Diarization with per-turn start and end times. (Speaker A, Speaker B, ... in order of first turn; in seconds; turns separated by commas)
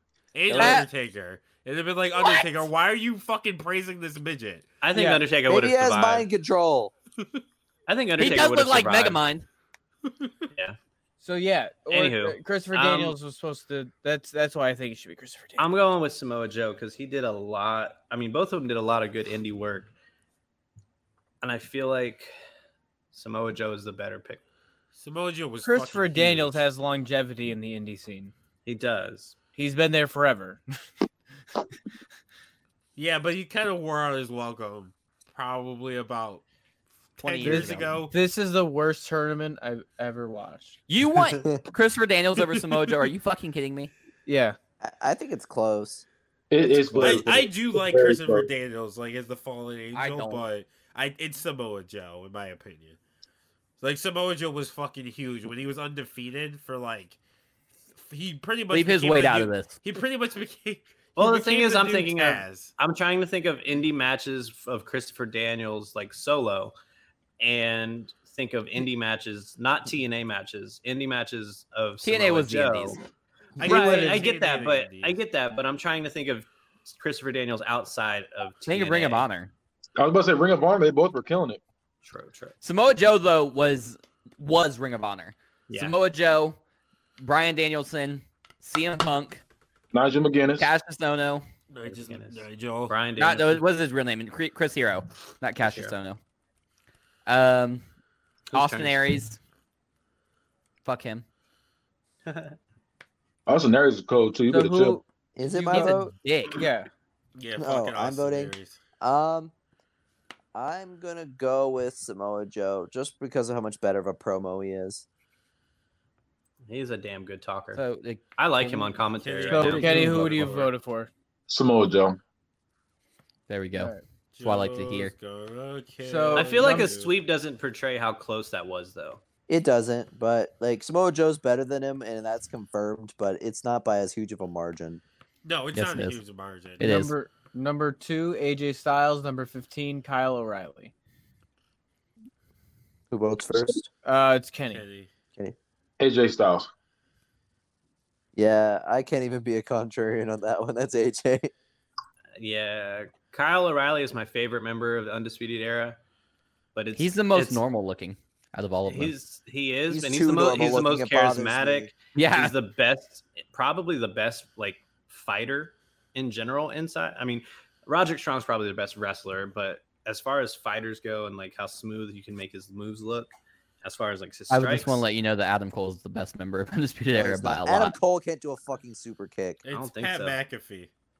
Speaker A: 0.3-4.7, Speaker B: 0.5-0.8, Speaker C: 0.5-0.9, Speaker C: 2.2-2.5, Speaker D: 4.8-6.3, Speaker E: 4.9-5.2, Speaker B: 5.5-6.9, Speaker D: 7.9-9.2, Speaker C: 8.2-9.5, Speaker E: 11.2-15.7, Speaker D: 11.9-13.2, Speaker D: 15.6-19.9, Speaker D: 21.4-22.3, Speaker D: 23.1-24.4, Speaker A: 25.0-26.7, Speaker E: 25.6-28.3, Speaker D: 28.6-29.4, Speaker E: 29.6-30.6, Speaker A: 33.0-36.4, Speaker A: 37.2-38.1, Speaker C: 37.2-38.0, Speaker E: 37.4-40.8, Speaker C: 40.9-43.9, Speaker E: 44.3-44.6, Speaker B: 44.8-46.0, Speaker F: 46.5-48.5, Speaker B: 46.6-47.3, Speaker A: 47.0-53.0, Speaker C: 49.9-50.4, Speaker A: 53.8-57.2, Speaker A: 58.0-62.7, Speaker C: 58.7-59.7, Speaker D: 61.2-66.8, Speaker D: 67.4-73.0, Speaker C: 72.0-73.0, Speaker A: 73.6-75.2, Speaker D: 73.6-79.3, Speaker E: 73.6-74.2, Speaker C: 78.7-79.5, Speaker F: 80.0-81.6, Speaker D: 82.0-82.6, Speaker C: 82.6-86.6, Speaker D: 85.7-86.0, Speaker C: 87.2-89.4, Speaker F: 89.9-90.7, Speaker C: 90.6-91.5, Speaker A: 91.7-93.0, Speaker D: 91.8-93.6, Speaker C: 93.2-96.2, Speaker D: 95.6-96.0, Speaker C: 97.3-97.8, Speaker D: 98.5-99.0, Speaker C: 98.5-99.4, Speaker C: 100.8-101.2, Speaker D: 102.2-102.6, Speaker F: 103.5-105.0, Speaker E: 104.5-106.9, Speaker B: 105.4-106.1, Speaker C: 105.7-106.6, Speaker A: 107.4-108.8, Speaker B: 107.6-109.5, Speaker B: 110.5-115.1, Speaker D: 116.7-117.8, Speaker C: 117.8-119.0, Speaker D: 118.4-120.4, Speaker A: 119.1-120.7, Speaker E: 119.5-121.1, Speaker F: 121.5-122.2, Speaker C: 123.5-125.1, Speaker E: 123.8-124.0, Speaker A: 124.3-127.1, Speaker E: 126.0-126.9, Speaker D: 126.3-129.2, Speaker B: 129.5-135.0, Speaker A: 135.4-136.8, Speaker C: 135.7-136.2, Speaker C: 136.8-137.1, Speaker E: 136.8-140.9, Speaker B: 143.1-143.9, Speaker E: 144.0-144.8, Speaker A: 144.7-145.1, Speaker F: 146.0-146.7, Speaker B: 148.3-151.5, Speaker D: 152.4-156.0, Speaker D: 156.8-157.6, Speaker C: 157.0-159.1, Speaker D: 158.9-175.1, Speaker B: 159.9-161.9, Speaker C: 162.2-162.5, Speaker C: 174.5-178.0, Speaker B: 177.2-179.6, Speaker A: 179.7-180.9, Speaker D: 179.7-180.4